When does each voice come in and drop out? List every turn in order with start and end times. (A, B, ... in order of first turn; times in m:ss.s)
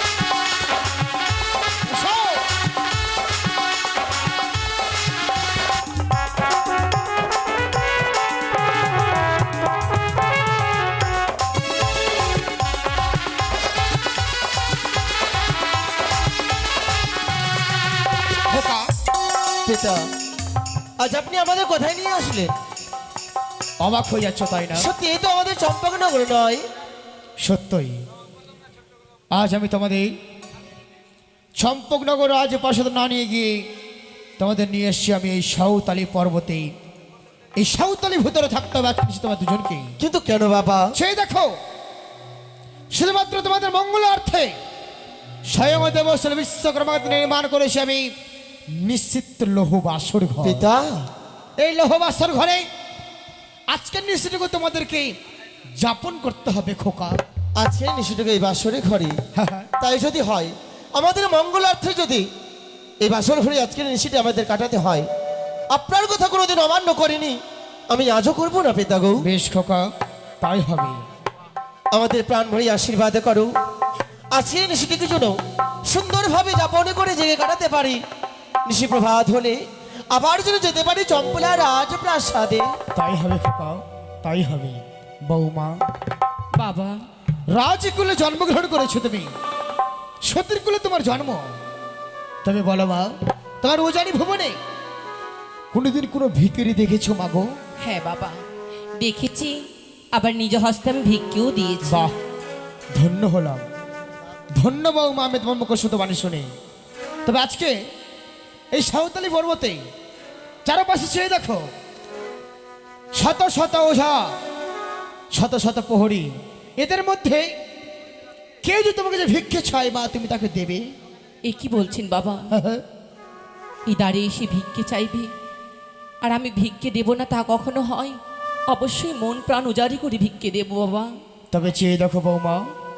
0:01.9-0:02.5 A
0:18.5-0:18.9 A
0:19.6-0:20.0 B
0:21.0-0:22.5 B
0:23.8-0:24.9 A
0:24.7-0:26.6 B
0:27.4-0:28.0 A
0:29.3-0:30.1 A
0:31.6-0:33.7 A
0:34.4-0:36.7 A
0:37.6-0:39.9 A
0:40.0-0:40.9 B
0:40.9-0:41.5 A
0:42.9-0:44.5 A
0:45.5-0:48.1 A
0:48.7-0:50.6 A
0:50.4-0:51.0 B
0:51.6-0:52.6 A
0:53.7-0:55.1 A
0:55.8-0:57.2 A
0:57.6-0:59.2 B
0:59.3-0:59.7 A
0:59.8-1:02.2 B
1:03.0-1:05.1 B
1:05.7-1:07.4 B
1:07.9-1:09.2 B
1:09.2-1:09.9 A
1:10.4-1:11.0 A
1:11.9-1:13.5 B
1:14.3-1:18.0 B
1:18.6-1:19.6 B
1:20.1-1:22.7 B
1:22.9-1:25.8 A
1:26.5-1:27.0 C
1:27.5-1:29.3 A
1:30.2-1:31.6 A
1:32.4-1:34.6 A
1:35.7-1:37.5 A
1:37.8-1:38.4 C
1:39.0-1:39.6 C
1:40.1-1:42.0 C
1:41.8-1:42.2 A
1:42.9-1:43.6 A
1:44.6-1:46.5 A
1:47.2-1:47.8 A
1:48.7-1:49.8 A
1:50.6-1:51.7 A
1:53.1-1:54.3 A
1:55.3-1:57.5 A
1:58.6-2:00.8 A
2:01.4-2:02.5 C
2:02.5-2:02.8 A
2:03.9-2:05.3 C
2:06.2-2:08.2 C
2:08.7-2:11.1 C
2:11.5-2:12.6 A